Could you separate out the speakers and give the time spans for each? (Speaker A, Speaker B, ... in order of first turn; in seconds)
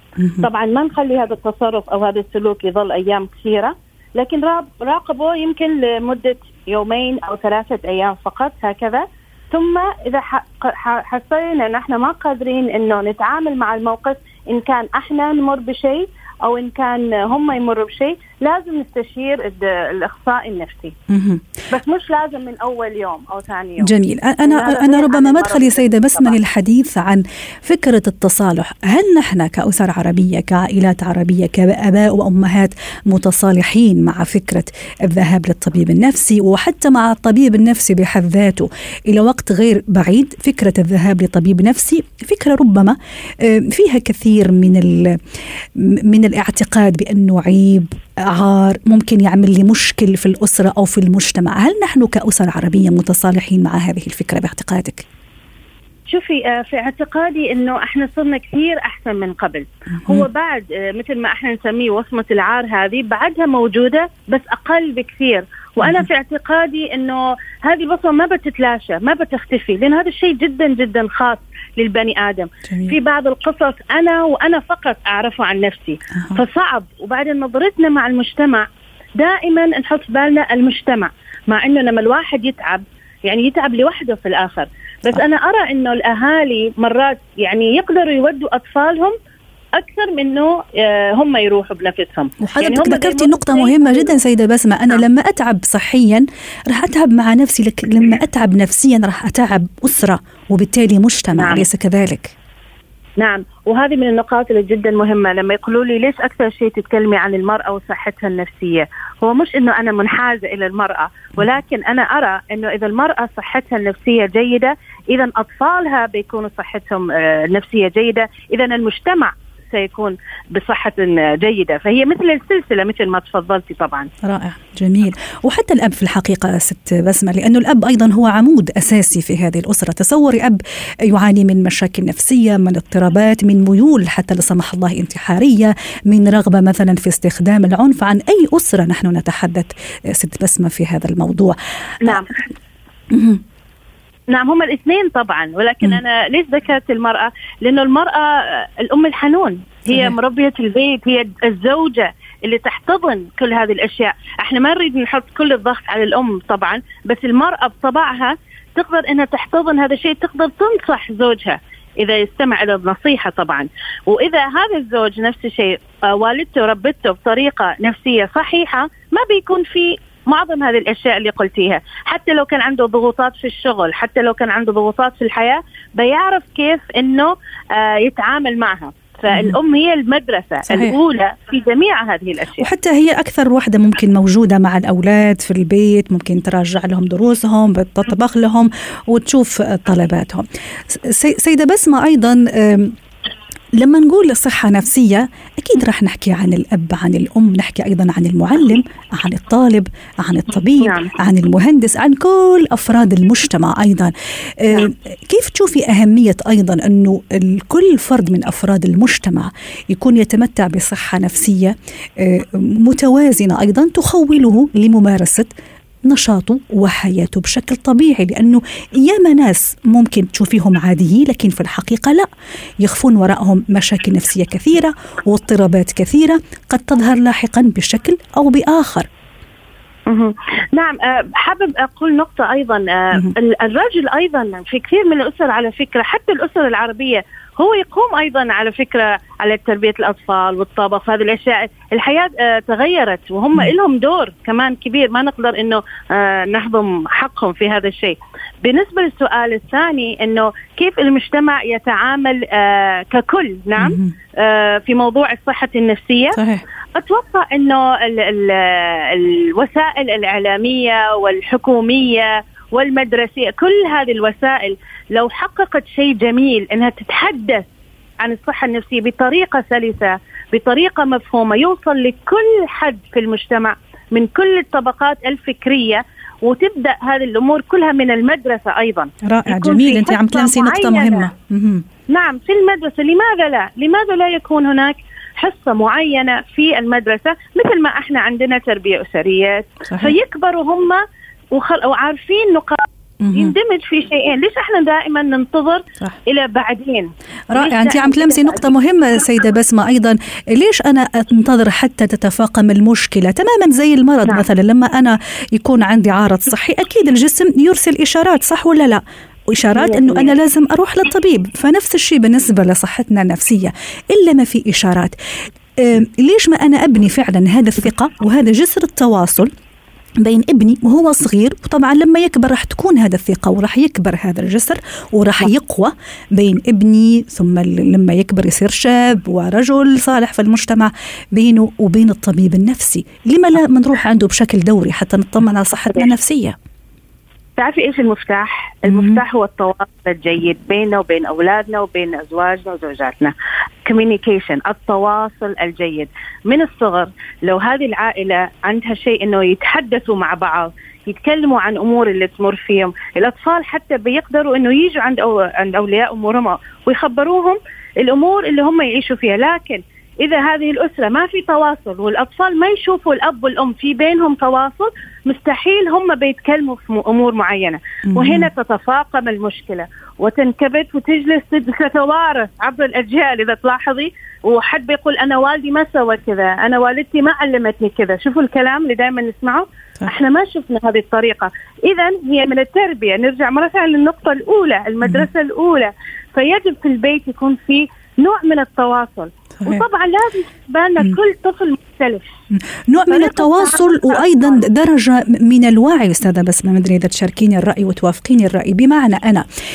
Speaker A: 0.2-0.5, 21.1-21.5, 23.8-45.2, 45.8-55.0, 72.7-73.0, 92.4-102.3, 124.2-142.3, 143.1-143.4, 149.9-150.2, 179.3-179.6, 180.7-181.0, 182.6-192.9, 193.8-215.5, 216.1-222.3, 222.8-229.1, 253.8-254.1, 256.4-256.6, 279.2-281.9, 289.9-290.1, 293.2-293.5, 297.5-315.1, 315.8-319.5, 320.2-336.6, 338.9-339.2, 368.1-368.5, 385.0-385.3, 389.6-389.9, 392.5-399.5
Speaker B: 0.4-21.0, 21.7-26.4, 56.1-89.2, 89.8-94.1, 101.3-101.7, 103.2-124.1, 142.0-142.3, 144.3-182.7, 200.8-201.1, 230.1-256.4, 256.9-267.7, 268.2-281.3, 282.1-298.8, 309.8-310.3, 337.6-392.3, 393.1-394.6